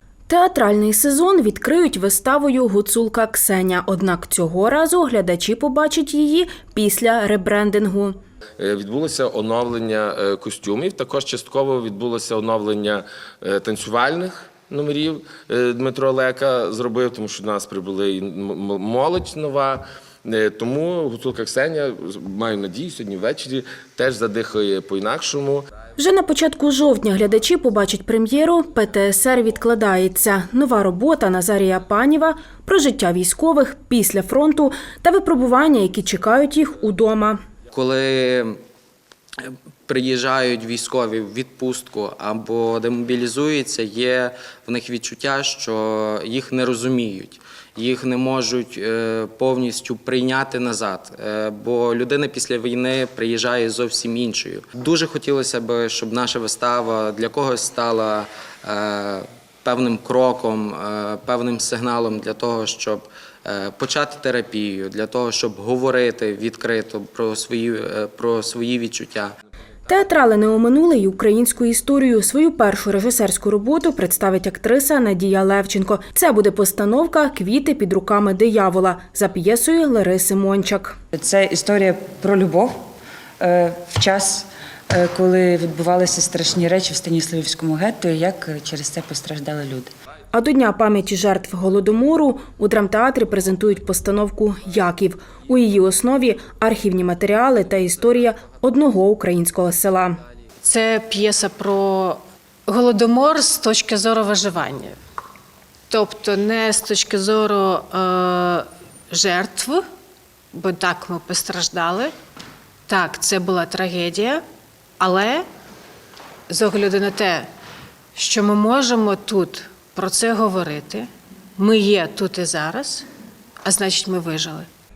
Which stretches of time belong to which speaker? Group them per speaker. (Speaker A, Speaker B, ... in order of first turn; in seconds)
Speaker A: 0.3-8.2, 26.0-37.4, 69.9-81.0, 90.3-100.2
Speaker B: 8.6-25.6
Speaker C: 37.7-38.6, 39.4-69.3
Speaker D: 81.1-82.8, 83.4-89.9
Speaker E: 100.6-105.0, 105.9-109.8, 110.5-112.1, 112.9-114.4, 115.0-115.5, 116.5-117.5, 118.2-123.0, 123.6-124.7